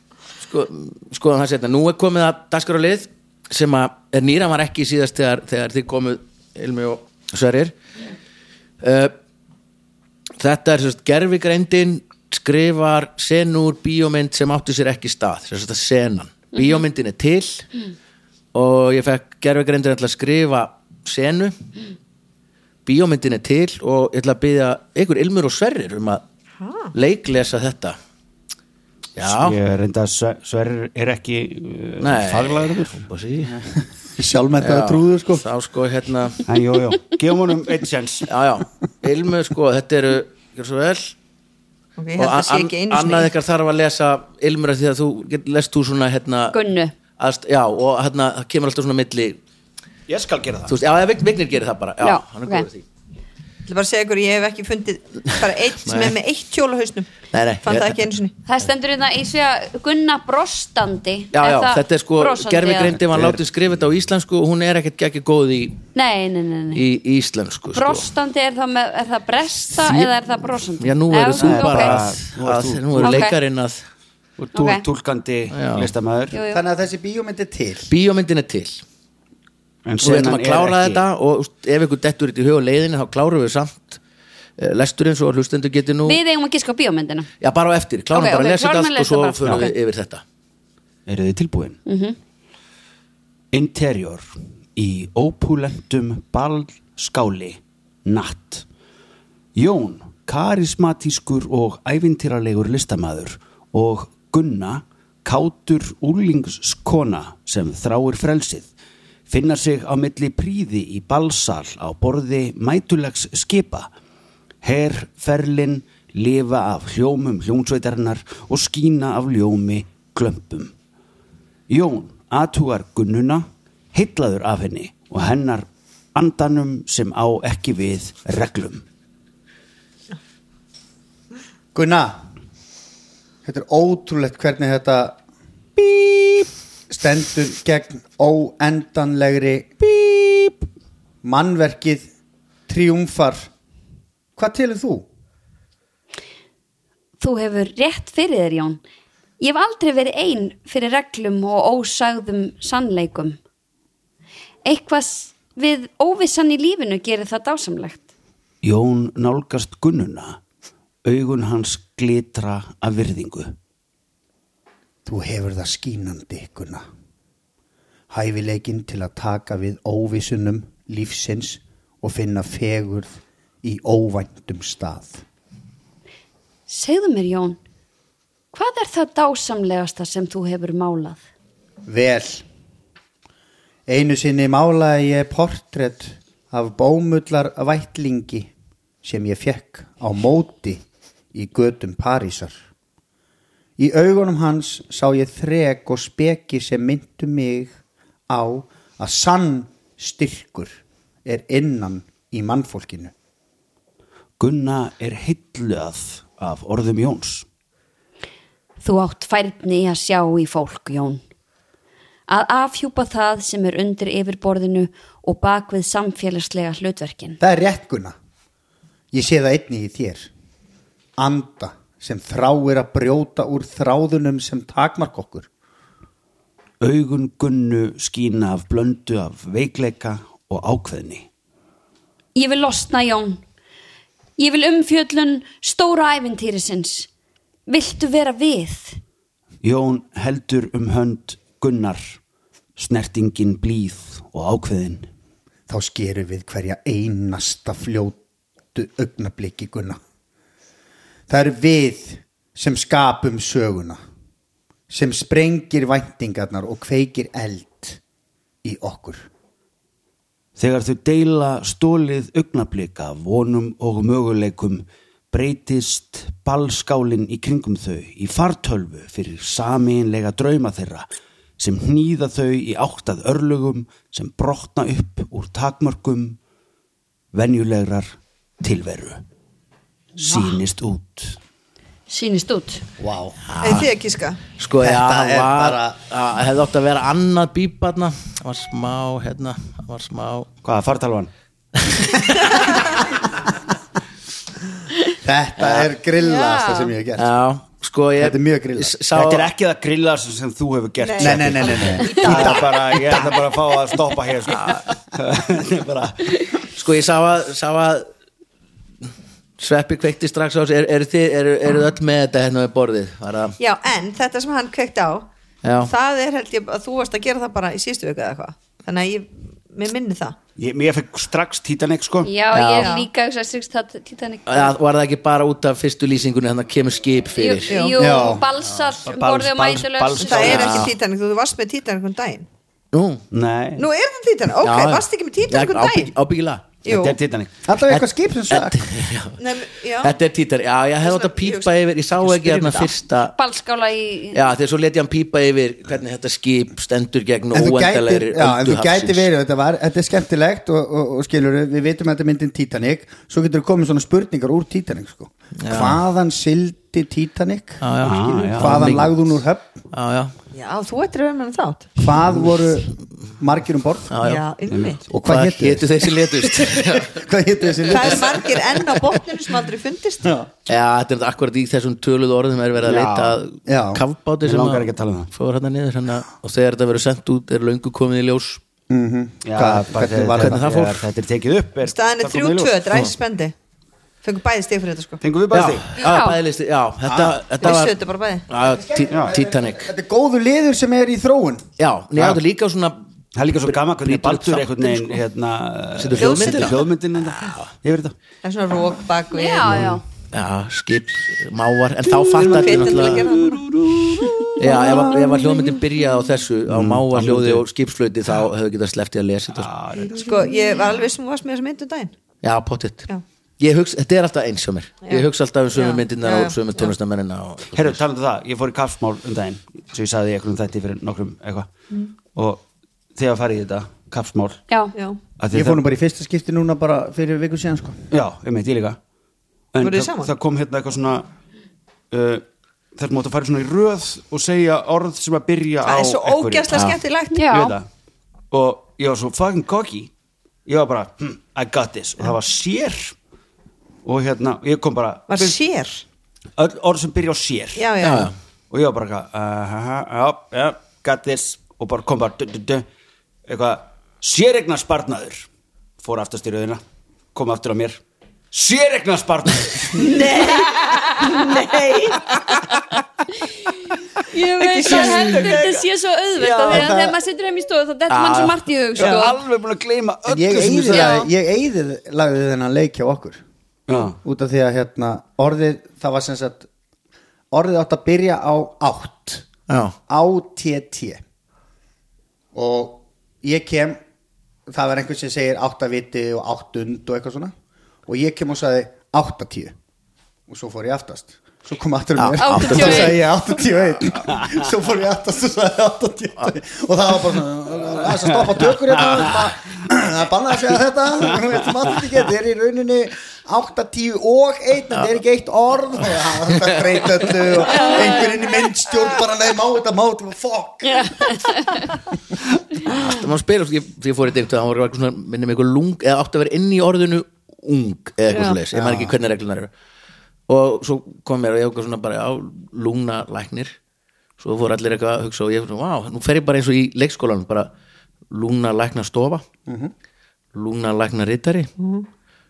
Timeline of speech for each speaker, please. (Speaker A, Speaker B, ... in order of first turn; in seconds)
Speaker A: 0.4-7.7, 8.8-9.1, 10.4-17.7, 18.5-21.6, 22.9-26.2, 26.9-28.0, 29.1-29.6, 32.0-33.7, 34.6-36.4, 38.3-41.1, 42.2-46.5, 47.2-49.4, 50.7-52.8, 55.8-56.1, 57.3-58.0, 61.3-65.8, 66.7-68.1, 69.8-70.1, 70.8-73.8, 75.5-75.9, 77.9-78.8, 80.0-84.0, 84.6-86.2, 87.4-90.2, 283.5-283.9, 284.6-290.5, 291.8-292.7, 295.6-295.9, 297.2-299.5, 306.7-308.1, 309.6-313.6, 315.6-315.9, 322.5-322.9, 324.4-327.8, 330.3-330.9, 332.9-333.2, 334.6-336.7, 337.9-339.4, 340.0-343.4, 344.3-349.2, 355.6-356.0, 357.8-359.2, 359.9-360.3, 364.1-364.4, 365.1-367.2, 370.7-378.6, 380.4-381.0, 385.5-389.9, 391.8-393.1, 393.6-395.2, 395.9-397.7, 400.3-403.3, 404.6-409.7, 412.4-418.0, 436.7-437.0, 448.0-448.3, 468.1-468.6, 479.7-479.9, 492.2-493.2, 506.6-507.5, 512.9-519.7, 520.5-523.8, 524.4-527.7, 528.3-529.4, 530.5-531.7
Speaker B: 16.5-16.8, 46.5-46.9, 52.0-52.6, 58.5-63.0, 65.9-66.8, 67.7-72.0, 73.0-73.3, 74.5-74.8, 76.3-76.6, 86.0-87.3, 88.1-89.7, 91.8-92.2, 147.2-148.8, 149.4-153.4, 154.6-158.0, 176.7-177.6, 178.5-181.2, 208.8-211.2, 212.3-217.4, 232.3-233.4, 234.4-237.1, 237.7-239.0, 282.1-282.8, 296.2-296.9, 322.2-324.7, 327.3-330.8, 343.4-344.4, 386.0-386.4, 399.3-400.0, 424.7-424.9, 437.3-437.8, 464.3-469.4, 470.9-471.3, 492.4-493.2, 507.7-508.3, 510.8-511.9
Speaker C: 26.6-26.9, 42.0-43.3, 53.6-57.1, 57.6-58.3, 283.6-284.4, 301.0-302.8, 313.6-315.3, 315.8-320.4, 322.8-323.1, 327.7-328.0, 330.2-332.5, 333.8-336.1, 336.8-337.2, 339.4-340.1, 341.0-342.9, 360.5-362.0, 364.2-365.0, 367.9-370.3, 381.8-383.5, 384.2-385.2, 387.6-388.4, 396.2-396.8, 398.4-399.9, 402.1-403.6, 404.6-405.6, 410.1-412.1, 415.1-416.9, 424.9-425.2, 429.8-430.3, 435.8-437.5, 445.3-446.0, 447.8-448.3, 459.9-462.6, 464.6-465.8, 466.4-466.9, 469.0-469.2, 507.8-508.1, 518.3-518.6, 531.8-532.0
Speaker D: 29.2-33.1, 36.5-38.3, 50.1-50.7, 63.1-63.4, 71.3-73.3, 74.4-76.4, 79.8-81.0, 91.0-91.8, 93.5-98.7, 99.5-108.7, 109.3-113.9, 114.6-120.7, 121.7-128.8, 158.6-160.4, 161.0-163.5, 204.4-207.4, 226.8-231.3, 239.6-242.2, 242.8-245.1, 260.6-271.1, 271.6-276.4, 277.3-279.2, 280.2-281.4, 290.6-291.3, 299.1-306.6, 320.6-322.3, 329.0-330.9, 333.3-333.9, 336.9-337.5, 358.0-359.0, 364.7-365.1, 372.8-373.4, 374.4-375.3, 379.4-382.9, 385.2-386.0, 389.1-389.4, 392.1-392.4, 393.3-398.1, 399.7-400.0, 402.4-404.9, 406.7-407.6, 409.5-410.6, 417.7-421.7, 422.3-424.6, 425.4-425.8, 428.1-429.0, 429.7-431.3, 432.1-436.8, 437.5-437.9, 438.5-440.1, 440.6-443.1, 444.0-445.6, 446.6-447.9, 448.7-452.9, 453.4-455.5, 456.0-456.8, 457.3-458.0, 458.5-460.4, 464.8-465.6, 468.9-471.2, 473.9-474.2
Speaker E: 34.2-35.4, 76.5-77.9, 131.7-132.2, 133.4-135.2, 135.8-140.6, 141.2-142.1, 142.7-143.5, 144.4-145.0, 165.0-166.8, 168.1-175.2, 181.8-182.4, 183.9-188.5, 189.0-190.8, 191.3-192.6, 193.8-197.7, 198.3-203.1, 217.4-218.1, 219.1-220.3, 221.2-225.5, 245.7-248.2, 248.7-250.0, 251.3-254.0, 254.9-258.0, 258.6-259.2, 283.0-283.4, 284.8-285.9, 295.2-297.3, 298.2-298.9, 301.2-302.7, 328.0-328.6, 337.6-338.8, 347.5-357.8, 358.5-359.7, 362.0-364.1, 365.1-368.4, 370.2-370.5, 373.7-374.0, 378.9-380.6, 387.1-387.4, 388.6-391.6, 425.5-428.0, 466.7-467.2, 470.3-473.4, 474.2-476.7, 477.5-479.4, 480.1-481.2, 482.5-484.0, 484.7-487.5, 488.1-489.7, 490.5-511.4, 518.7-519.1, 529.7-529.9